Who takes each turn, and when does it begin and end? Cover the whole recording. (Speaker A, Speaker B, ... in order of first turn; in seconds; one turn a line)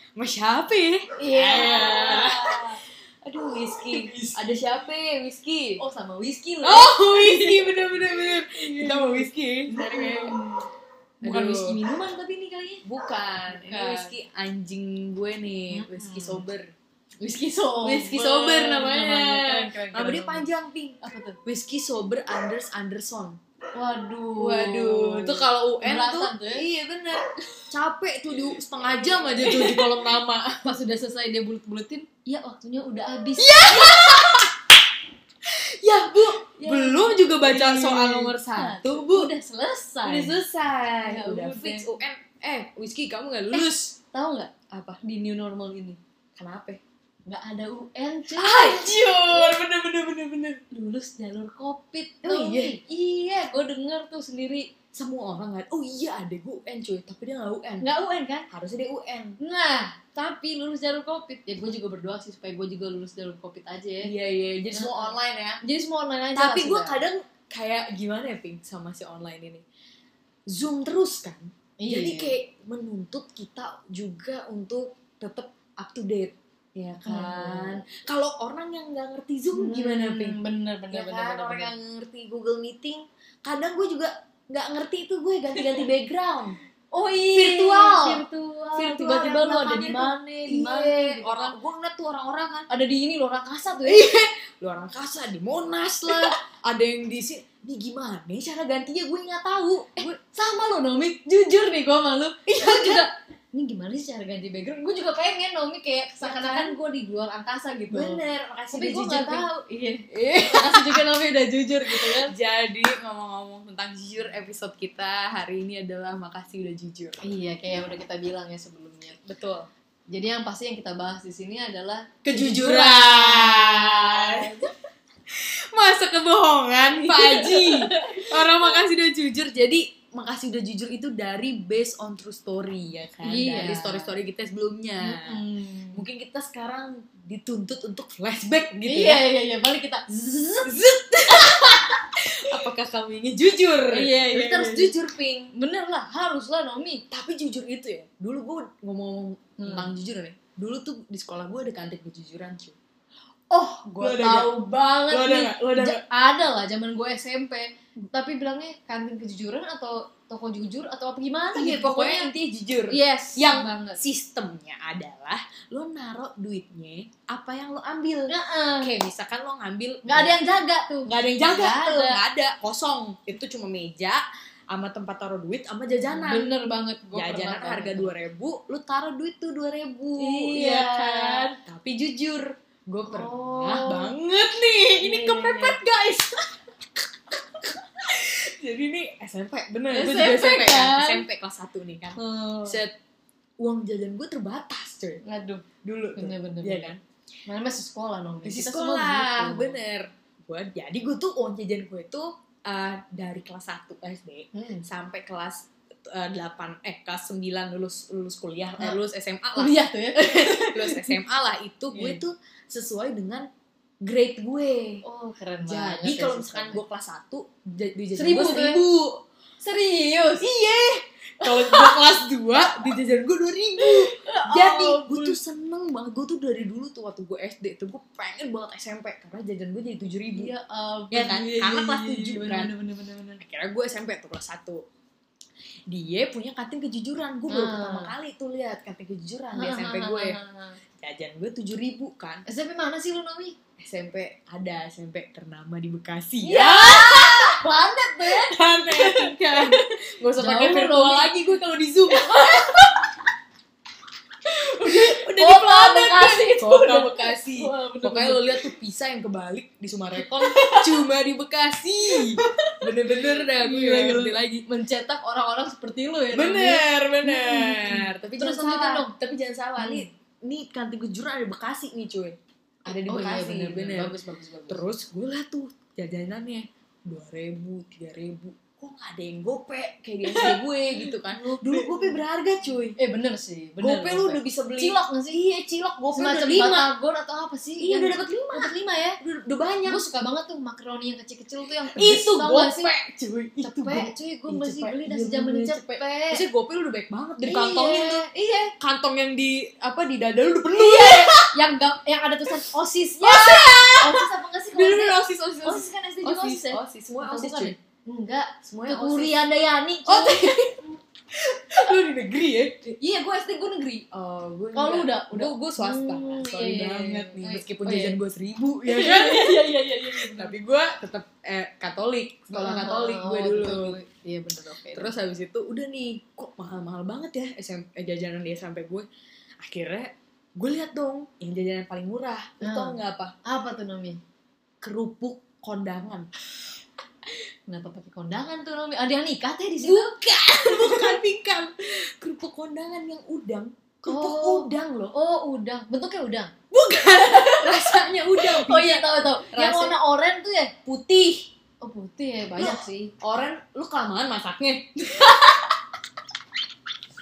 Speaker A: 0.1-2.7
Speaker B: 1.2-2.8
Speaker A: 3.2-5.8
Speaker B: 3.9-4.6
Speaker B: 5.8-10.7
Speaker A: 6.6-10.4
Speaker B: 11.2-12.8
Speaker A: 11.2-11.8
Speaker A: 12.8-16.7
Speaker B: 13.5-14.1
Speaker B: 15.7-16.4
Speaker B: 17.2-20.5
Speaker A: 17.8-23.4
Speaker B: 21.0-21.4
Speaker B: 23.7-26.6
Speaker A: 24.4-30.7
Speaker B: 28.8-29.9
Speaker B: 30.6-34.4
Speaker A: 33.4-34.5
Speaker A: 35.4-39.3
Speaker B: 36.6-40.4
Speaker A: 40.0-44.0
Speaker B: 41.0-41.9
Speaker B: 43.5-46.0
Speaker A: 44.7-45.0
Speaker A: 46.4-46.8
Speaker B: 47.3-49.6
Speaker A: 48.3-50.6
Speaker B: 50.7-54.7
Speaker A: 52.2-52.8
Speaker A: 54.9-57.9
Speaker B: 57.8-58.5
Speaker A: 58.5-59.4
Speaker B: 59.4-64.1
Speaker A: 64.0-65.6
Speaker B: 64.7-67.0
Speaker A: 66.3-69.6
Speaker A: 70.5-80.4
Speaker B: 71.8-72.3
Speaker B: 77.0-77.8
Speaker B: 79.5-81.7
Speaker A: 80.9-86.6
Speaker B: 85.5-85.8
Speaker B: 86.9-91.6
Speaker A: 87.3-92.7
Speaker B: 92.7-94.1
Speaker A: 93.8-100.1
Speaker B: 96.1-96.3
Speaker B: 100.0-112.3
Speaker A: 102.5-103.1
Speaker A: 106.2-106.8
Speaker A: 107.9-109.5
Speaker A: 110.1-111.1
Speaker A: 111.9-117.2
Speaker B: 117.2-119.2
Speaker A: 119.2-119.7
Speaker B: 120.1-124.7
Speaker A: 122.2-124.5
Speaker A: 125.3-135.4
Speaker B: 127.0-128.8
Speaker B: 133.2-134.1
Speaker B: 135.0-136.0
Speaker A: 135.9-139.2
Speaker B: 138.8-140.7
Speaker A: 140.1-145.5
Speaker B: 141.3-141.9
Speaker B: 143.9-144.9
Speaker B: 145.5-147.0
Speaker A: 147.1-152.8
Speaker B: 149.6-149.9
Speaker B: 153.5-162.3
Speaker A: 153.9-156.0
Speaker A: 161.5-170.3
Speaker B: 162.9-164.0
Speaker B: 168.3-168.9
Speaker B: 170.0-172.2
Speaker A: 171.1-176.5
Speaker B: 176.1-178.2
Speaker A: 177.1-192.9
Speaker B: 180.2-181.6
Speaker B: 183.1-184.1
Speaker B: 185.0-185.8
Speaker B: 189.9-191.2
Speaker B: 192.2-192.8
Speaker A: 193.6-195.2
Speaker B: 195.2-196.9
Speaker A: 195.8-197.0
Speaker B: 197.5-199.8
Speaker A: 198.4-213.5
Speaker B: 204.5-204.8
Speaker B: 209.6-211.2
Speaker B: 211.9-212.2
Speaker A: 214.0-215.0
Speaker B: 215.0-216.8
Speaker A: 215.6-219.2
Speaker B: 218.2-218.8
Speaker B: 219.6-220.5
Speaker A: 220.4-230.5
Speaker B: 221.4-222.0
Speaker B: 223.8-225.4
Speaker B: 230.3-233.4
Speaker A: 231.1-232.7
Speaker A: 233.4-234.8
Speaker A: 235.9-240.4
Speaker B: 237.5-238.1
Speaker B: 239.5-240.8
Speaker A: 241.0-242.4
Speaker B: 242.5-243.6
Speaker A: 243.8-247.6
Speaker B: 246.4-251.3
Speaker A: 248.2-252.9
Speaker B: 252.1-253.0
Speaker B: 254.5-258.7
Speaker A: 254.5-264.6
Speaker B: 260.1-261.0
Speaker B: 262.1-269.1
Speaker A: 266.3-274.1
Speaker B: 269.8-270.1
Speaker B: 272.9-274.8
Speaker A: 274.7-282.9
Speaker B: 280.2-282.2
Speaker B: 283.0-285.4
Speaker A: 283.8-286.9
Speaker B: 286.1-289.2
Speaker A: 287.8-290.0
Speaker B: 289.9-292.9
Speaker A: 291.9-298.3
Speaker B: 293.6-296.4
Speaker B: 297.4-298.7
Speaker A: 298.8-301.5
Speaker B: 300.7-310.7
Speaker A: 303.2-307.7
Speaker A: 308.6-309.4
Speaker A: 310.1-310.7
Speaker A: 311.3-312.9
Speaker B: 312.9-314.1
Speaker A: 314.1-324.0
Speaker B: 314.7-318.2
Speaker B: 318.8-320.6
Speaker B: 322.5-325.1
Speaker A: 324.9-329.1
Speaker A: 329.6-333.3
Speaker B: 332.6-334.2
Speaker A: 334.8-336.3
Speaker B: 337.7-340.1
Speaker A: 339.8-345.1
Speaker B: 340.6-341.1
Speaker B: 344.1-346.5
Speaker A: 346.7-350.0
Speaker B: 347.2-350.7
Speaker A: 350.9-351.5
Speaker B: 351.8-353.1
Speaker A: 352.6-355.3
Speaker B: 355.0-355.7